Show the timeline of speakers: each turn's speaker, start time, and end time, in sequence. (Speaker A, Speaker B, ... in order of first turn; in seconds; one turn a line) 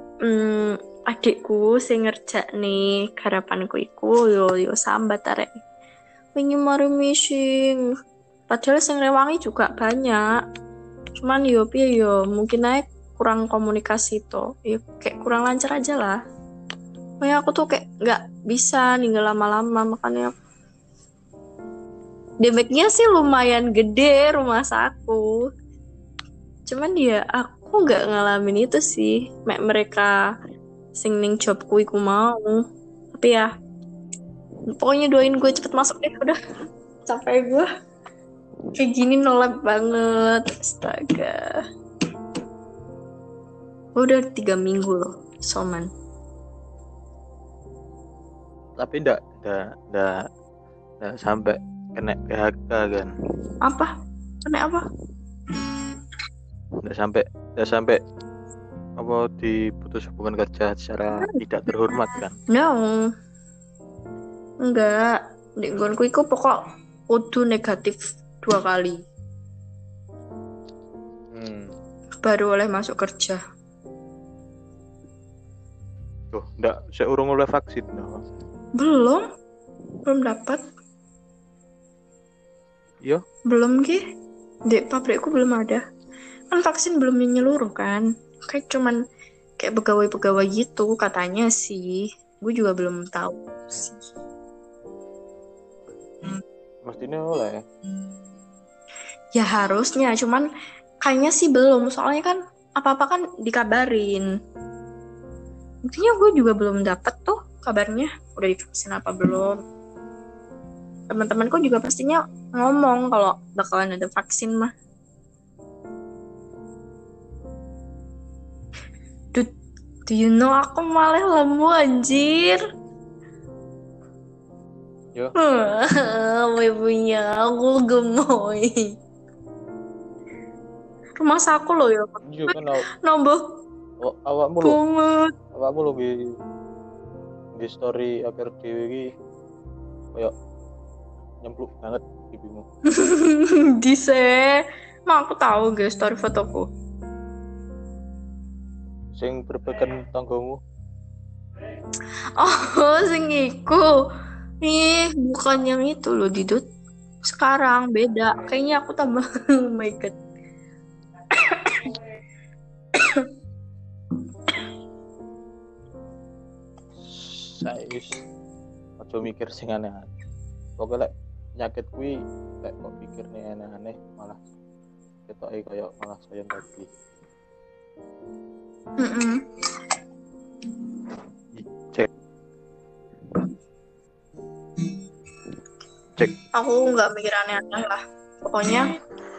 Speaker A: 0.2-5.5
Speaker A: 6.3-7.8
Speaker A: 8.5-10.2
Speaker A: 11.2-16.2
Speaker A: 17.2-20.3
Speaker A: 22.4-25.3
Speaker A: 26.7-30.1
Speaker A: 31.0-32.6
Speaker A: 33.1-33.5
Speaker A: 34.7-36.4
Speaker A: 37.1-37.7
Speaker A: 38.8-41.6
Speaker A: 44.0-45.9
Speaker B: 48.8-50.1
Speaker B: 51.0-53.1
Speaker A: 53.6-53.9
Speaker A: 54.4-54.8
Speaker B: 56.8-58.0
Speaker B: 59.0-62.4
Speaker A: 61.1-63.0
Speaker A: 64.6-66.6
Speaker A: 67.1-69.0
Speaker B: 71.3-71.7
Speaker A: 72.2-73.4
Speaker B: 76.3-78.2
Speaker A: 78.8-79.2
Speaker A: 80.0-80.6
Speaker A: 83.5-84.0
Speaker A: 84.7-85.8
Speaker A: 86.5-89.0
Speaker A: 89.6-94.0
Speaker B: 96.8-97.6
Speaker A: 99.3-100.5
Speaker A: 101.0-104.3
Speaker A: 105.8-109.6
Speaker A: 111.1-114.7
Speaker A: 120.1-122.6
Speaker A: 125.4-128.9
Speaker A: 131.2-133.4
Speaker B: 132.3-132.8
Speaker B: 134.0-134.8
Speaker A: 134.6-135.3
Speaker B: 135.5-136.1
Speaker B: 137.6-139.0
Speaker B: 141.4-142.6
Speaker A: 142.9-146.7
Speaker B: 149.1-150.6
Speaker A: 152.4-153.9
Speaker A: 154.6-156.6
Speaker A: 157.2-160.1
Speaker A: 161.3-161.9
Speaker A: 162.9-163.2
Speaker B: 167.0-168.2
Speaker B: 169.0-170.1
Speaker B: 170.8-174.4
Speaker B: 175.3-176.9
Speaker A: 179.0-179.4
Speaker B: 181.5-182.1
Speaker A: 186.5-188.9